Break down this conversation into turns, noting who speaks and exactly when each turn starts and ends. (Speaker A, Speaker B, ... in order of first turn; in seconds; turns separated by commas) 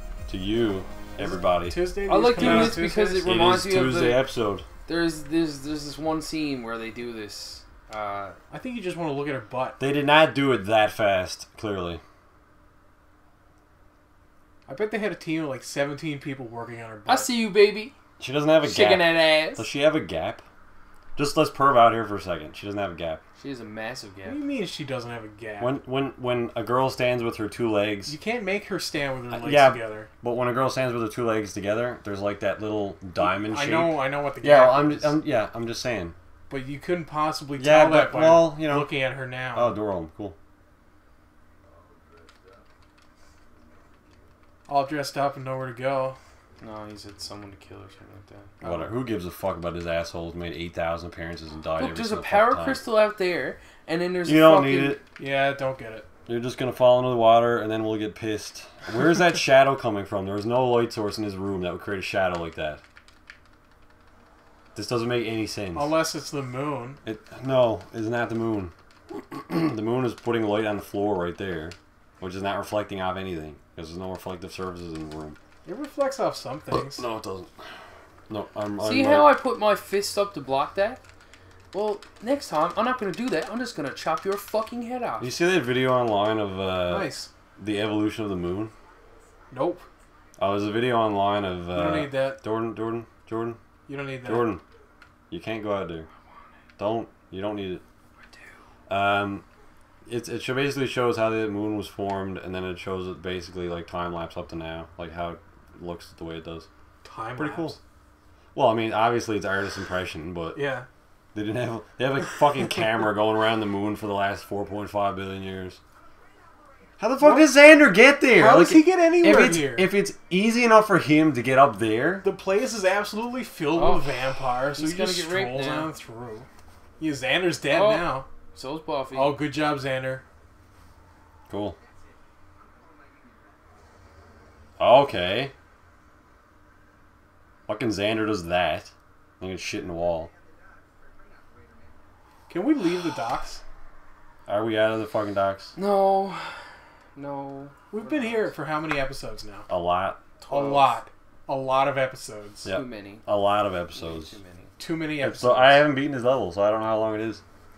Speaker A: 0.3-1.8, Speaker B: 1.2-3.3, Speaker C: 2.1-4.3, Speaker A: 2.3-4.7, Speaker C: 4.9-8.4, Speaker B: 8.5-9.8, Speaker A: 9.8-12.0, Speaker B: 14.7-17.3, Speaker C: 17.1-17.9, Speaker A: 18.2-20.4, Speaker C: 18.6-19.7, Speaker A: 21.2-23.2, Speaker C: 23.4-24.4, Speaker B: 24.2-25.8, Speaker A: 25.6-28.1, Speaker B: 28.1-30.1, Speaker A: 29.3-36.1, Speaker B: 33.2-35.2, Speaker B: 36.5-39.8, Speaker A: 37.6-38.9, Speaker A: 39.5-40.4, Speaker B: 44.7-46.2, Speaker C: 46.6-48.5, Speaker A: 48.6-52.8, Speaker B: 48.6-48.9, Speaker C: 51.8-55.0, Speaker A: 54.2-55.0, Speaker B: 55.2-56.1, Speaker A: 56.3-62.8, Speaker A: 64.8-65.9, Speaker B: 65.8-67.0, Speaker A: 67.0-75.4, Speaker B: 75.7-77.0, Speaker A: 76.7-77.5, Speaker A: 78.3-79.3, Speaker C: 78.8-81.0, Speaker C: 81.7-85.3, Speaker A: 85.2-88.7, Speaker B: 86.9-87.3, Speaker B: 89.5-89.9, Speaker A: 90.4-93.6, Speaker B: 91.7-92.4, Speaker B: 93.9-94.5, Speaker A: 94.2-94.6, Speaker A: 95.3-96.1, Speaker A: 96.8-97.8, Speaker A: 98.9-99.5, Speaker A: 100.1-106.7, Speaker B: 107.0-107.8, Speaker A: 107.4-107.8, Speaker A: 108.5-110.6, Speaker B: 110.5-110.9, Speaker A: 111.3-115.8, Speaker A: 117.0-122.3, Speaker B: 117.2-117.5, Speaker B: 118.3-119.9, Speaker B: 122.2-126.5, Speaker C: 123.7-125.9, Speaker B: 127.0-128.3, Speaker C: 127.7-129.4, Speaker B: 129.1-130.2, Speaker A: 131.5-131.8, Speaker A: 134.8-135.5, Speaker A: 137.7-140.3, Speaker B: 142.5-143.6, Speaker A: 144.5-145.7, Speaker C: 145.8-146.6, Speaker C: 147.2-148.5, Speaker B: 147.9-149.7, Speaker A: 149.7-150.2, Speaker C: 150.4-151.0, Speaker B: 150.5-152.7, Speaker A: 152.7-154.4, Speaker C: 152.7-153.2, Speaker C: 153.9-154.7, Speaker B: 154.8-155.9, Speaker A: 155.2-157.4